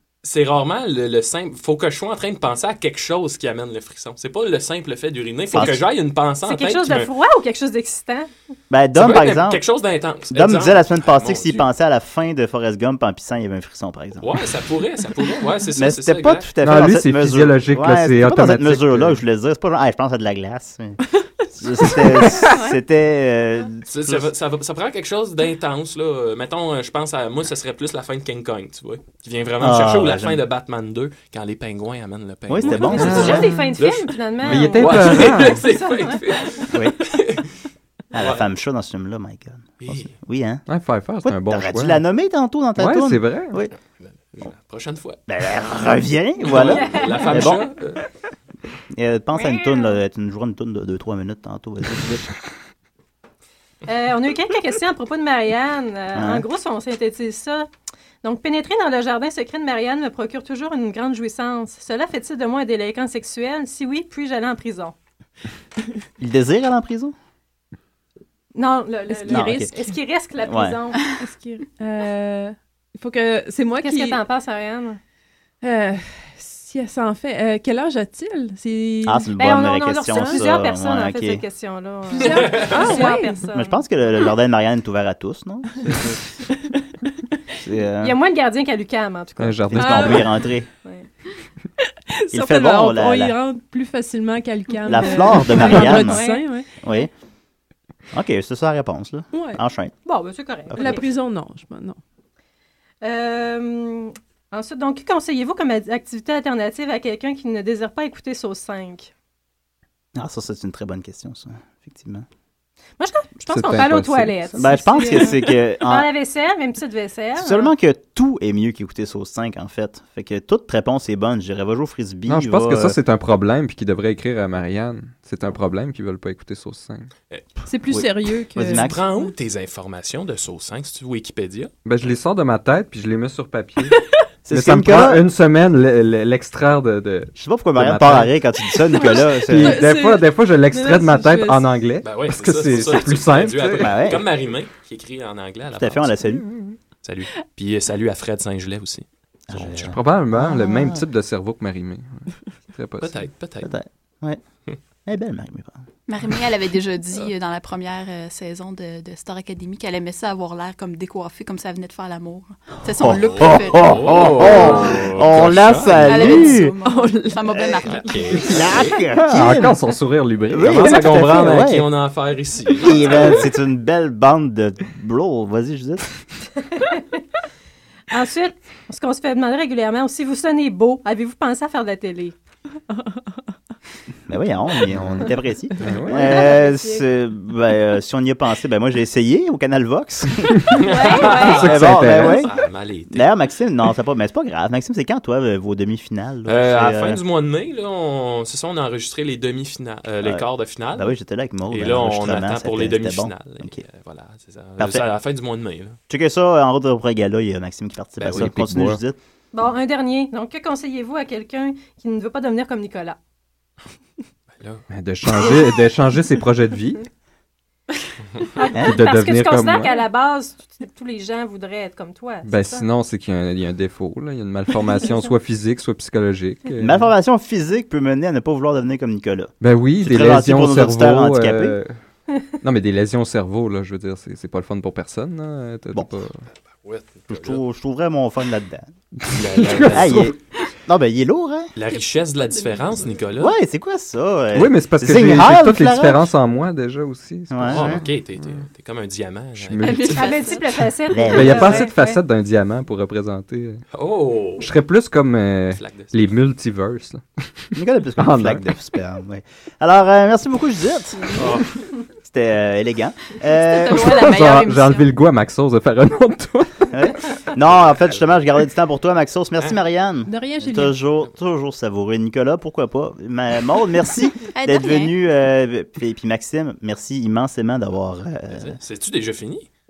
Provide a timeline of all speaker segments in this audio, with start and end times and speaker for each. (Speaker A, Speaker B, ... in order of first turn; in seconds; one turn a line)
Speaker A: 0.2-7.1
Speaker B: 5.5-5.8
Speaker C: 6.5-8.3
Speaker B: 8.7-9.6
Speaker A: 8.9-11.7
Speaker B: 10.3-14.3
Speaker A: 14.2-16.5
Speaker B: 15.8-21.0
Speaker D: 16.6-19.2
Speaker B: 21.5-24.3
Speaker A: 23.9-37.5
Speaker B: 29.6-30.4
Speaker B: 32.5-33.7
Speaker C: 32.7-36.7
Speaker D: 33.0-33.5
Speaker D: 34.5-35.6
Speaker B: 38.1-40.6
Speaker A: 38.2-38.4
Speaker A: 39.8-40.1
Speaker D: 40.7-42.0
Speaker B: 41.2-43.7
Speaker D: 42.8-43.6
Speaker A: 44.0-45.2
Speaker B: 45.3-47.7
Speaker A: 46.4-48.0
Speaker C: 46.6-47.6
Speaker B: 48.9-52.3
Speaker C: 49.3-50.0
Speaker C: 53.9-57.7
Speaker B: 56.1-56.5
Speaker C: 58.2-65.0
Speaker B: 66.2-67.1
Speaker C: 68.5-71.1
Speaker E: 69.2-69.5
Speaker B: 69.3-69.8
Speaker B: 70.4-70.8
Speaker E: 71.1-74.2
Speaker C: 73.8-75.0
Speaker E: 75.6-79.3
Speaker B: 79.0-81.4
Speaker C: 79.4-83.8
Speaker E: 80.1-80.4
Speaker E: 82.2-83.4
Speaker B: 83.5-85.9
Speaker B: 87.6-88.2
Speaker C: 88.0-91.1
Speaker D: 89.4-90.2
Speaker B: 89.7-90.7
Speaker E: 92.1-96.7
Speaker B: 92.3-93.4
Speaker C: 94.8-97.0
Speaker B: 94.9-96.3
Speaker B: 96.8-97.1
Speaker B: 98.1-99.9
Speaker E: 99.3-99.6
Speaker C: 100.0-101.1
Speaker E: 100.8-102.0
Speaker C: 103.0-109.1
Speaker B: 110.2-112.2
Speaker C: 113.0-117.7
Speaker D: 113.5-114.7
Speaker B: 114.6-116.1
Speaker E: 114.9-115.4
Speaker B: 117.4-123.0
Speaker D: 122.3-127.1
Speaker E: 127.7-129.3
Speaker B: 127.9-129.0
Speaker A: 128.7-131.7
Speaker D: 131.8-134.0
Speaker B: 134.5-135.2
Speaker D: 134.5-138.4
Speaker B: 137.4-139.9
Speaker E: 139.0-141.7
Speaker D: 139.0-144.1
Speaker A: 142.0-146.2
Speaker B: 143.7-144.2
Speaker B: 145.7-146.5
Speaker D: 146.5-146.8
Speaker A: 147.0-149.9
Speaker B: 149.5-151.0
Speaker D: 149.9-153.1
Speaker A: 153.0-153.7
Speaker B: 153.6-154.4
Speaker B: 155.1-155.8
Speaker F: 156.1-164.9
Speaker B: 162.9-166.8
Speaker A: 163.2-166.4
Speaker F: 166.0-168.7
Speaker E: 166.8-167.5
Speaker A: 167.8-169.0
Speaker B: 168.4-169.7
Speaker D: 169.2-171.6
Speaker B: 170.5-171.8
Speaker A: 170.7-173.5
Speaker B: 172.8-176.1
Speaker C: 178.1-182.4
Speaker B: 184.3-190.8
Speaker D: 185.8-186.5
Speaker E: 186.5-187.0
Speaker C: 190.8-191.9
Speaker A: 190.8-193.3
Speaker D: 191.4-192.5
Speaker B: 191.5-192.5
Speaker B: 193.1-197.2
Speaker A: 196.5-201.2
Speaker B: 200.2-203.8
Speaker A: 201.7-206.0
Speaker B: 206.1-209.2
Speaker A: 208.2-208.5
Speaker D: 208.2-209.0
Speaker C: 209.5-213.2
Speaker A: 214.6-214.8
Speaker D: 214.9-217.1
Speaker C: 215.4-215.7
Speaker C: 218.6-222.9
Speaker D: 218.8-220.1
Speaker D: 222.4-227.1
Speaker B: 226.8-231.8
Speaker D: 229.6-231.9
Speaker D: 232.6-236.3
Speaker A: 236.8-237.6
Speaker B: 237.3-238.9
Speaker D: 239.2-240.3
Speaker A: 239.4-240.3
Speaker B: 239.5-241.7
Speaker A: 241.8-243.6
Speaker F: 242.5-243.2
Speaker B: 243.4-246.3
Speaker D: 244.5-248.1
Speaker B: 247.5-248.0
Speaker A: 247.7-250.4
Speaker D: 249.6-250.3
Speaker F: 249.8-250.9
Speaker C: 250.2-252.2
Speaker B: 251.1-251.9
Speaker D: 251.3-253.8
Speaker A: 253.9-254.7
Speaker D: 254.6-258.7
Speaker A: 255.8-256.3
Speaker B: 257.8-261.5
Speaker A: 261.4-261.7
Speaker B: 262.2-264.4
Speaker F: 263.5-265.1
Speaker D: 263.9-267.0
Speaker B: 266.9-278.8
Speaker A: 267.9-268.2
Speaker E: 270.3-271.0
Speaker F: 274.5-275.2
Speaker A: 278.5-279.7